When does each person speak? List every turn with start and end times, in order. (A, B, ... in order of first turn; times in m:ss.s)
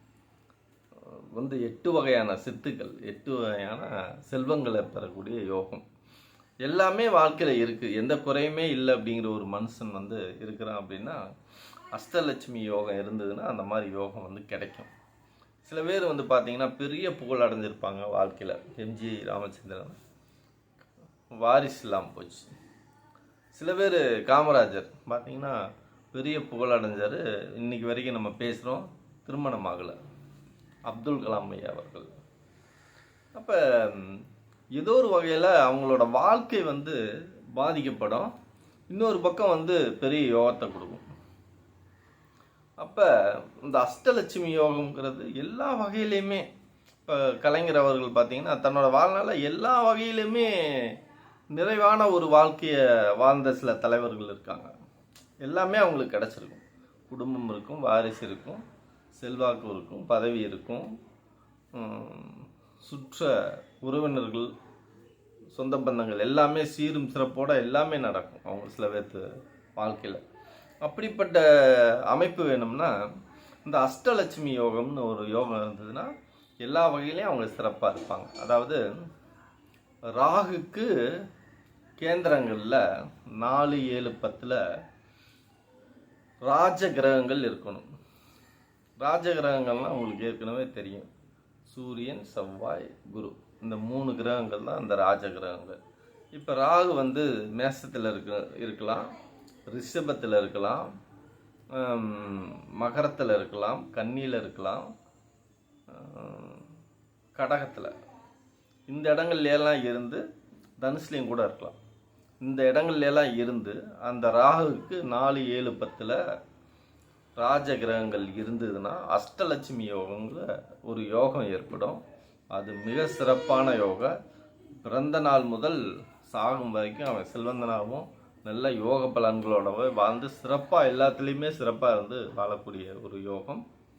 0:01.0-0:05.8 A
0:06.6-0:11.2 A
0:11.9-0:14.9 A
0:15.6-0:20.0 A
0:21.4-0:22.5 A
0:23.5-0:25.6 A
0:26.1-0:30.0 A
0:30.9-0:32.1 A
0:33.3-0:34.2 A
0:34.8-0:37.0 A
0:37.6-0:38.3 A
0:38.9-0:41.0 A
0:42.8-0:46.4 A
0:47.0-0:51.0 A
0:51.5-0:54.7 A
0:55.4-0:58.6 A
0:59.1-1:00.9 A
1:01.7-1:04.5 A
1:05.5-1:09.2 A
1:09.8-1:10.2 A
1:10.8-1:12.9 A
1:13.6-1:16.1 A
1:16.6-1:18.8 A
1:20.1-1:20.9 A
1:22.0-1:24.6 A
1:26.4-1:27.8 A
1:29.0-1:31.1 A
1:31.7-1:35.8 A
1:36.3-1:39.1 A
1:39.7-1:40.9 A
1:41.7-1:44.9 A
1:45.9-1:46.7 A
1:47.3-1:47.9 A
1:48.9-1:50.2 A
1:50.8-1:51.7 A
1:52.4-1:56.2 A
1:57.4-2:02.0 A
2:02.5-2:04.1 A
2:04.8-2:13.6 A